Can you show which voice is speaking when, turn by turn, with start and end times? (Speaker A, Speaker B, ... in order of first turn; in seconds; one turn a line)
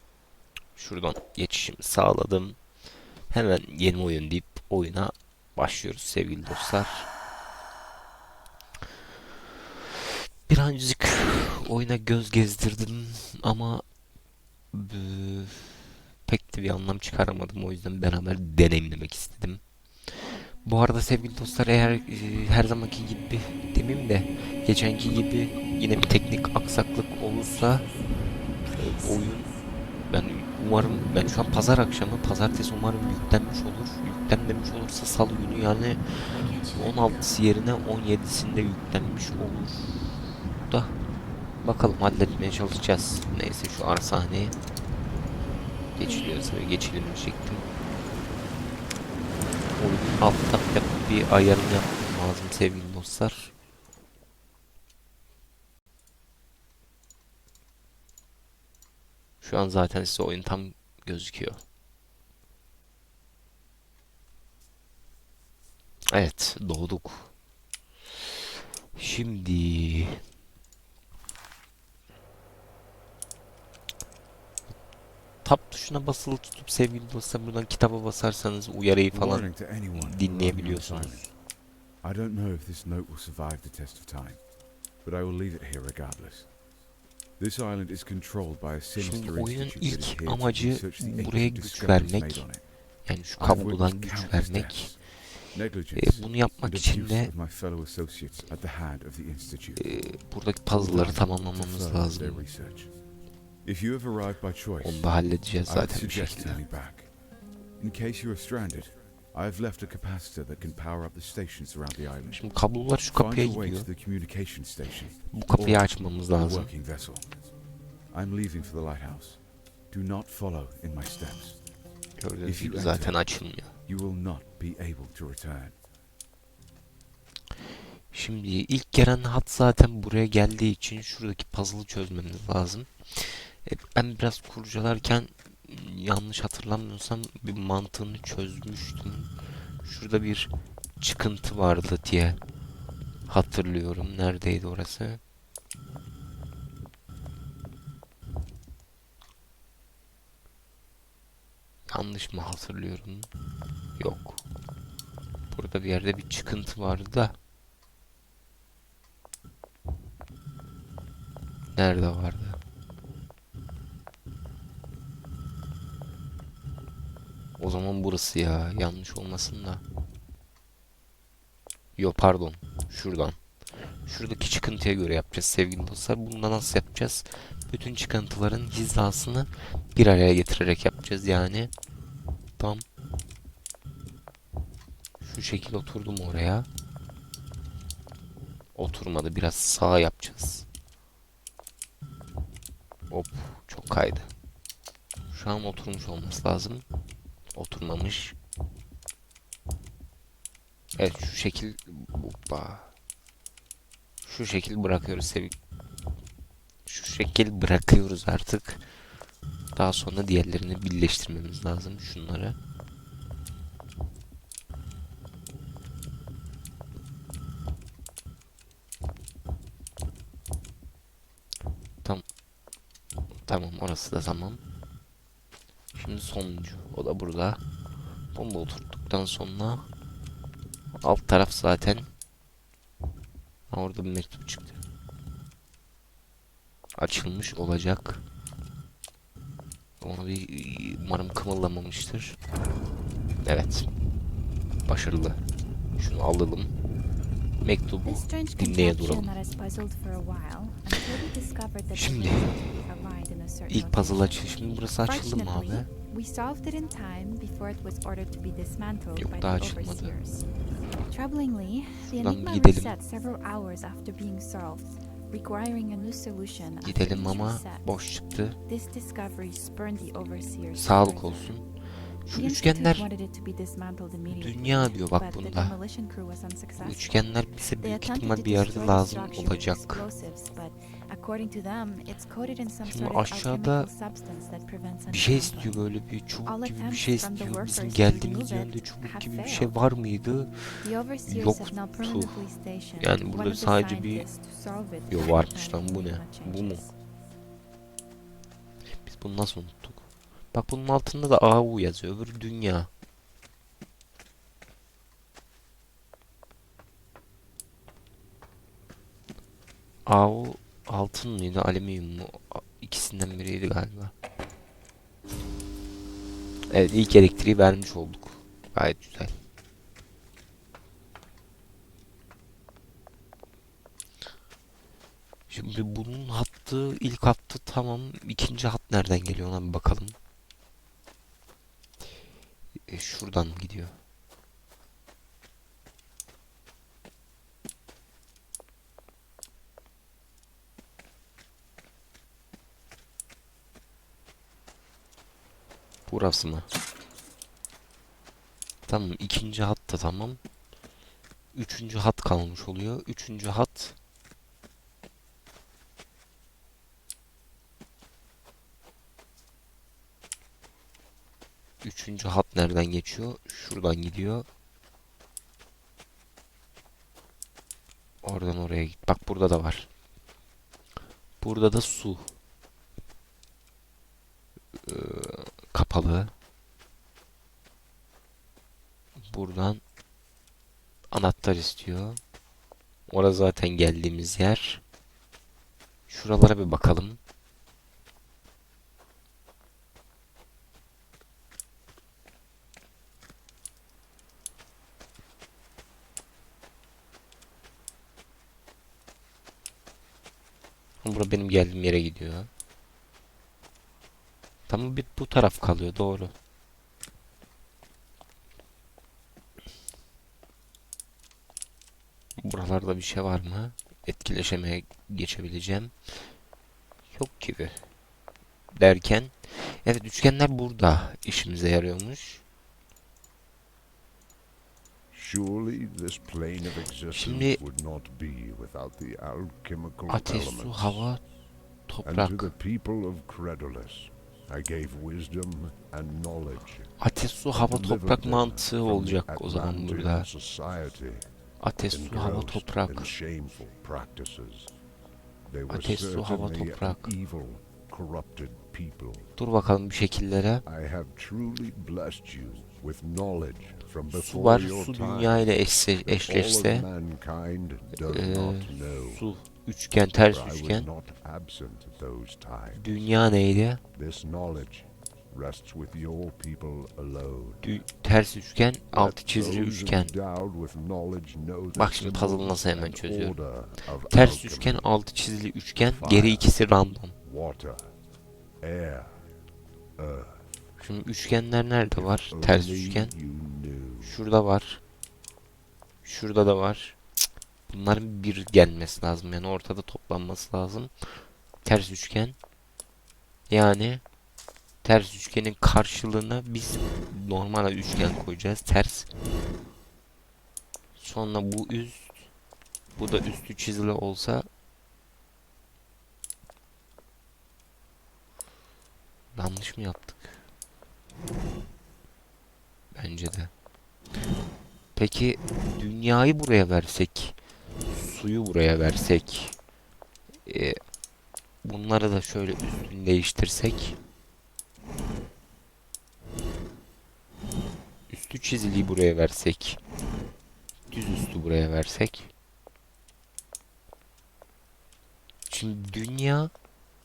Speaker A: 0.7-2.6
Speaker A: 3.3-7.1
Speaker A: 10.5-13.8
Speaker A: 14.7-27.9
Speaker A: 28.7-29.5
Speaker A: 30.1-41.0
Speaker A: 41.6-44.5
Speaker A: 46.0-47.6
Speaker A: 49.7-53.5
Speaker A: 59.4-61.6
Speaker A: 66.1-67.3
Speaker A: 68.9-70.2
Speaker A: 75.4-81.3
Speaker B: 79.1-81.3
Speaker B: 82.0-84.4
Speaker B: 85.0-86.5
Speaker B: 87.4-92.6
Speaker A: 88.9-92.5
Speaker A: 93.0-95.0
Speaker B: 93.4-99.9
Speaker A: 95.9-97.3
Speaker A: 99.8-102.5
Speaker B: 100.7-102.9
Speaker B: 103.6-107.1
Speaker A: 104.8-106.6
Speaker B: 107.8-117.3
Speaker A: 112.3-113.9
Speaker A: 115.3-116.7
Speaker B: 118.1-121.6
Speaker A: 122.2-123.7
Speaker B: 122.4-123.3
Speaker B: 123.8-125.8
Speaker A: 128.1-139.3
Speaker A: 139.8-142.4
Speaker A: 143.2-145.2
Speaker A: 151.9-153.3
Speaker A: 154.0-154.4
Speaker A: 155.5-157.4
Speaker A: 161.8-162.6
Speaker A: 167.6-169.8
Speaker A: 171.9-173.4
Speaker A: 174.0-181.7
Speaker A: 182.6-182.8
Speaker A: 185.2-186.7
Speaker A: 188.8-190.7
Speaker A: 193.1-194.3
Speaker A: 195.3-196.8
Speaker A: 197.5-198.3
Speaker A: 200.9-202.9
Speaker A: 204.2-205.5
Speaker A: 206.8-208.8
Speaker A: 209.8-212.6
Speaker A: 223.4-224.6
Speaker A: 225.9-227.6
Speaker A: 228.3-229.9
Speaker A: 231.0-232.1
Speaker A: 233.7-234.8
Speaker A: 236.9-238.2
Speaker A: 240.0-242.4
Speaker A: 243.4-243.9
Speaker A: 244.8-245.4
Speaker A: 246.0-246.7
Speaker A: 247.6-249.3
Speaker C: 248.1-260.5
Speaker A: 251.9-252.5
Speaker A: 253.7-255.9
Speaker A: 259.1-260.2
Speaker C: 261.1-267.9
Speaker A: 262.0-262.9
Speaker A: 266.8-268.6
Speaker C: 268.7-271.5
Speaker A: 270.7-271.7
Speaker A: 272.2-273.1
Speaker C: 272.3-277.1
Speaker A: 274.3-275.8
Speaker A: 276.8-280.1
Speaker C: 277.8-285.8
Speaker A: 282.9-283.9
Speaker A: 285.1-292.4
Speaker C: 286.4-289.7
Speaker C: 290.8-296.9
Speaker A: 293.0-294.3
Speaker A: 295.1-296.8
Speaker A: 299.0-302.9
Speaker A: 310.1-314.1
Speaker A: 316.7-319.4
Speaker A: 325.5-330.1
Speaker A: 332.9-333.9
Speaker A: 346.1-346.7
Speaker A: 348.9-350.4
Speaker A: 351.5-353.9
Speaker A: 361.8-364.4
Speaker A: 368.2-369.9
Speaker A: 371.4-372.3
Speaker A: 374.8-376.3
Speaker A: 379.2-379.8
Speaker A: 381.1-382.2
Speaker A: 383.1-384.8
Speaker A: 386.1-387.2
Speaker A: 401.0-402.5
Speaker A: 404.7-406.3
Speaker A: 412.4-416.3
Speaker A: 417.1-417.8
Speaker A: 418.7-422.4
Speaker D: 425.1-431.1
Speaker A: 427.1-427.6
Speaker A: 430.1-431.2
Speaker A: 431.9-432.5
Speaker D: 432.1-436.9
Speaker A: 437.0-440.3
Speaker D: 437.5-441.2
Speaker A: 441.6-443.1
Speaker D: 441.9-444.7
Speaker D: 445.4-449.3
Speaker A: 445.7-447.1
Speaker A: 449.4-450.6
Speaker D: 450.6-455.4
Speaker A: 454.1-456.9
Speaker D: 456.0-459.2
Speaker A: 458.0-460.9
Speaker D: 460.3-462.9
Speaker A: 462.7-463.8
Speaker D: 463.9-467.8
Speaker A: 467.6-470.1
Speaker D: 468.9-474.9
Speaker A: 471.7-473.4
Speaker A: 474.1-477.1
Speaker D: 475.8-476.5
Speaker D: 477.2-477.9
Speaker D: 478.6-479.2
Speaker D: 480.0-480.6
Speaker A: 480.8-483.1
Speaker D: 481.9-484.2
Speaker A: 484.0-484.8
Speaker A: 486.0-487.0
Speaker A: 487.7-490.9
Speaker A: 491.6-492.4
Speaker A: 493.5-494.0
Speaker A: 494.8-499.1
Speaker A: 501.0-502.3
Speaker A: 502.9-504.5
Speaker A: 509.3-510.4
Speaker A: 512.9-513.5
Speaker A: 515.0-517.4
Speaker A: 517.9-519.6
Speaker A: 520.5-520.8
Speaker A: 521.6-524.0
Speaker A: 528.1-529.8
Speaker A: 530.9-532.3
Speaker A: 535.5-536.5